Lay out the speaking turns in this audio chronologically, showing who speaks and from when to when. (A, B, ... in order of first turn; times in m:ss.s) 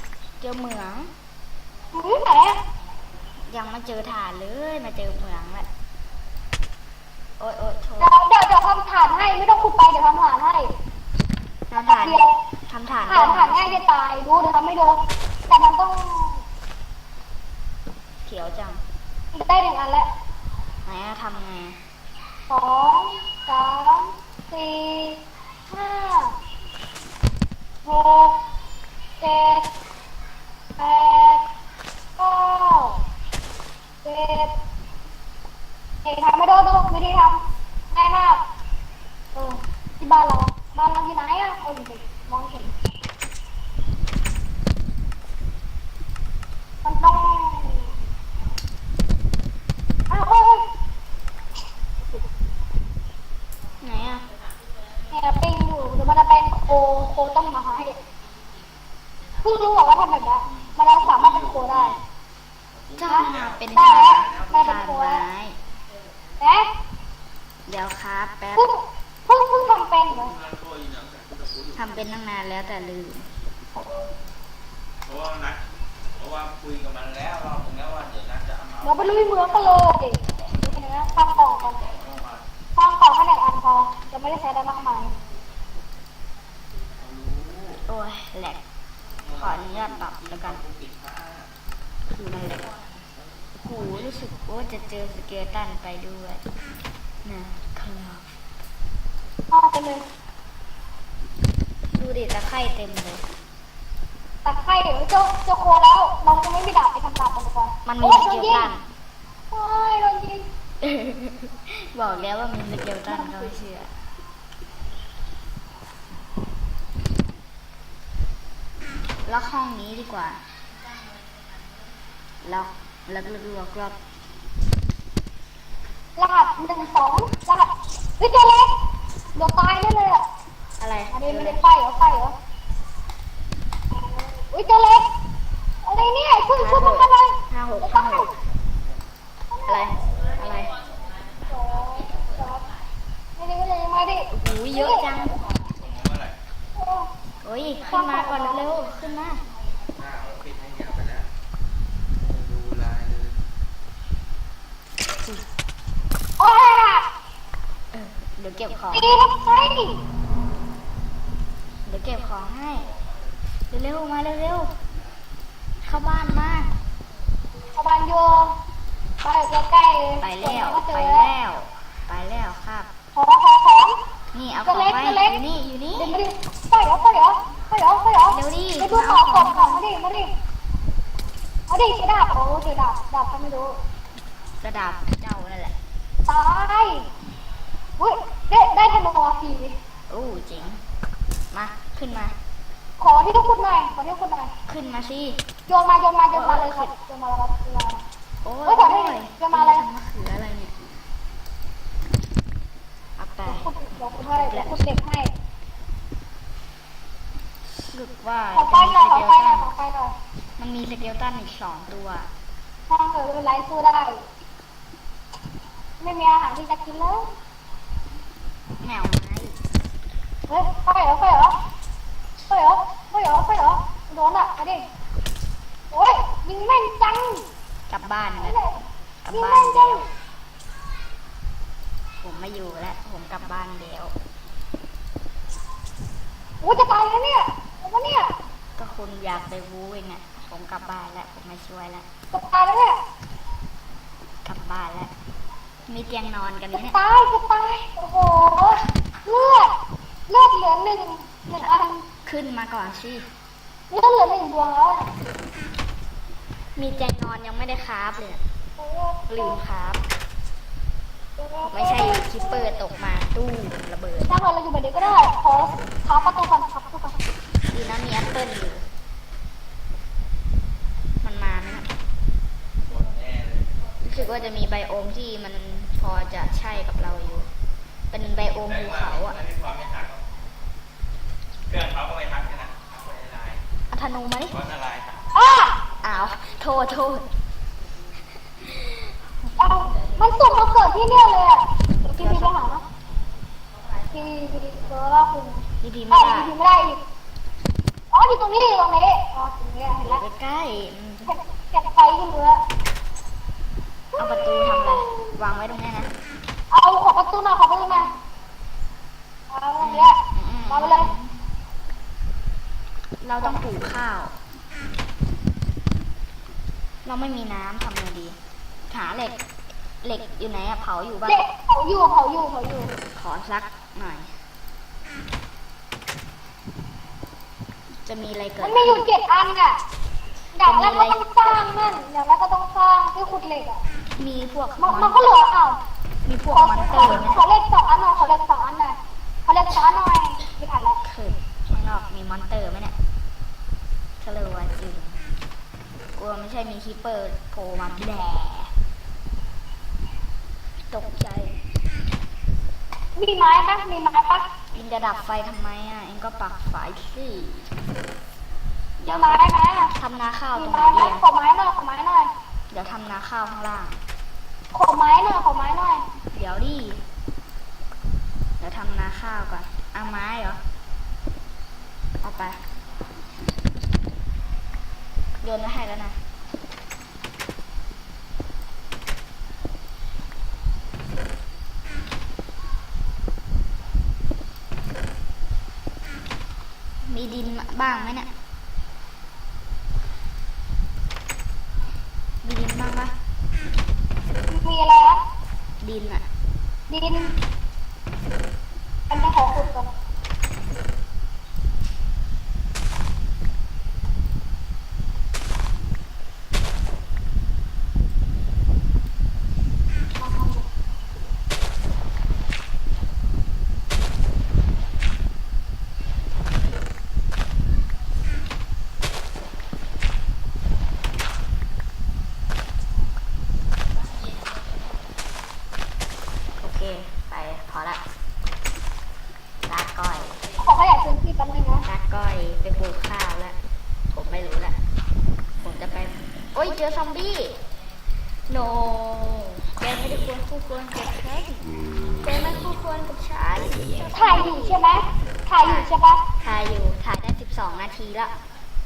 0:00.4-0:01.1 A
0:01.9-0:02.6 B
0:03.4-0:05.7 A
0:07.4-0:08.1 A
0:08.0-0:10.7 B
0:11.7-0:13.8 A
0:11.9-0:12.4 B
0:13.1-0:16.4 B
0:18.2-0:18.8 A
0:19.3-0:20.1 B
0:20.8-0:21.8 A
0:22.5-0:26.3 B
0:27.8-0:28.4 B
0:29.2-0:29.6 B
0:30.8-0:31.4 B
0:32.2-0:33.0 B
0:34.0-0:34.5 B
0:36.0-0:38.4 B
0:39.3-0:42.7 B
0:46.8-0:48.0 B
0:50.1-0:50.6 B
0:53.8-0:54.3 A
0:55.1-0:58.0 B
0:59.4-1:02.0 B
1:00.4-1:02.0 C
1:02.7-1:04.6 C
1:03.0-1:05.6 A
1:03.1-1:05.2 B
1:06.4-1:06.7 B
1:07.7-1:08.7 A
1:08.6-1:10.3 B
1:10.1-1:12.0 C
1:11.7-1:13.3 A
1:15.0-1:15.6 C
1:16.2-1:22.5 C
1:18.8-1:21.9 B
1:22.8-1:25.2 B
1:27.0-1:27.8 C
1:27.9-1:28.6 A
1:29.2-1:31.5 C
1:29.3-1:30.6 A
1:32.1-1:32.7 A
1:33.6-1:36.4 A
1:33.8-1:34.1 C
1:37.2-1:38.3 A
1:39.5-1:40.0 B
1:41.9-1:43.2 A
1:44.4-1:48.7 B
1:47.8-1:48.8 A
1:49.5-1:50.4 B
1:50.8-1:53.9 A
1:53.1-1:53.5 B
1:59.2-2:00.4 A
2:02.4-2:04.0 A
2:06.2-2:08.8 B
2:09.3-2:10.2 B
2:10.8-2:11.6 A
2:11.1-2:12.3 B
2:13.9-2:15.1 B
2:15.8-2:18.3 B
2:16.6-2:18.3 A
2:19.5-2:20.0 B
2:19.7-2:20.7 A
2:21.4-2:22.7 B
2:23.4-2:25.1 B
2:24.3-2:25.4 A
2:25.4-2:26.4 C
2:26.8-2:27.1 B
2:27.4-2:29.4 A
2:27.9-2:28.6 B
2:29.9-2:31.3 C
2:32.2-2:33.4 C
2:36.4-2:37.0 B
2:37.9-2:39.2 A
2:38.9-2:40.0 B
2:41.8-2:42.9 A
2:42.7-2:43.4 C
2:43.7-2:44.7 A
2:45.8-2:46.7 A
2:47.7-2:48.6 B
2:49.2-2:51.3 B
2:50.2-2:52.9 A
2:53.1-2:54.0 B
2:54.3-2:56.2 A
2:54.6-2:55.4 B
2:55.9-3:00.3 B
2:58.3-2:59.8 A
3:01.7-3:03.8 B
3:04.6-3:05.7 A
3:06.3-3:07.1 B
3:08.0-3:09.8 B
3:10.1-3:10.8 A
3:11.5-3:12.3 A
3:13.0-3:14.5 B
3:14.7-3:15.4 A
3:15.7-3:18.0 B
3:16.3-3:16.9 A
3:18.4-3:20.8 A
3:18.6-3:19.8 B
3:23.2-3:23.6 A
3:23.4-3:25.3 B
3:24.4-3:24.8 A
3:27.7-3:29.7 A
3:28.5-3:30.1 B
3:30.6-3:32.3 A
3:32.9-3:34.2 B
3:36.0-3:37.3 B
3:38.8-3:39.6 A
3:40.5-3:41.6 B
3:42.5-3:44.8 B
3:45.9-3:47.4 B
3:47.9-3:48.6 A
3:48.4-3:48.8 B
3:49.2-3:50.0 A
3:49.3-3:50.0 B
3:52.2-3:54.1 A
3:56.6-3:58.3 B
3:58.8-4:02.0 A
4:02.3-4:03.0 B
4:04.4-4:05.1 A
4:05.9-4:07.0 A
4:06.7-4:09.7 B
4:10.3-4:12.0 B
4:12.2-4:13.2 A
4:13.9-4:15.1 B
4:16.8-4:18.4 A
4:18.8-4:19.6 B
4:19.3-4:20.0 A
4:21.4-4:22.5 B
4:21.6-4:24.3 A
4:24.3-4:27.2 B
4:27.7-4:28.8 A
4:31.2-4:31.9 A
4:32.8-4:33.8 C
4:34.0-4:37.5 A
4:38.1-4:39.4 A
4:38.6-4:40.2 C
4:41.7-4:43.6 C
4:43.9-4:44.6 A
4:44.5-4:45.3 C
4:45.3-4:45.8 B
4:46.0-4:47.3 A
4:48.6-4:49.1 A
4:49.6-4:52.8 B
4:52.0-4:52.7 A
4:54.1-4:57.0 B
4:55.8-4:56.5 A
4:58.1-5:00.2 B
5:00.0-5:01.3 A
5:01.3-5:02.6 B
5:04.1-5:05.3 B
5:04.2-5:06.1 A
5:06.7-5:08.1 B
5:09.5-5:10.2 B
5:09.8-5:11.4 A
5:10.7-5:11.1 B
5:13.2-5:14.4 A
5:17.0-5:18.4 A
5:18.9-5:19.4 A
5:20.0-5:21.4 A
5:21.2-5:23.0 B
5:23.1-5:24.3 A
5:28.0-5:29.0 A
5:28.6-5:29.8 B
5:30.5-5:33.8 B
5:30.6-5:31.2 A
5:34.2-5:35.2 A
5:34.8-5:35.8 B
5:36.2-5:37.4 A
5:36.5-5:41.0 B
5:41.0-5:42.9 A
5:44.2-5:45.2 A
5:46.2-5:48.7 A
5:50.9-5:51.6 A
5:53.2-5:54.5 B
5:54.7-5:57.7 A
5:59.0-5:59.4 A
5:59.1-5:59.9 B
5:59.9-6:01.2 A
6:00.5-6:02.3 B
6:02.7-6:04.0 A
6:04.7-6:06.0 B
6:06.3-6:07.0 A
6:08.6-6:10.6 A
6:12.2-6:12.6 A
6:15.4-6:16.2 A
6:27.0-6:28.3 A
6:32.4-6:33.1 A
6:34.5-6:35.2 B
6:35.8-6:36.2 A
6:36.9-6:37.3 B
6:39.1-6:39.9 B
6:50.2-6:50.6 B
7:06.6-7:08.0 A
7:09.7-7:10.4 A
7:10.6-7:11.8 B
7:11.8-7:13.6 A
7:14.1-7:14.8 A
7:15.6-7:17.6 A
7:18.5-7:24.8 A
7:24.1-7:26.2 B
7:25.6-7:25.9 A
7:26.4-7:28.4 A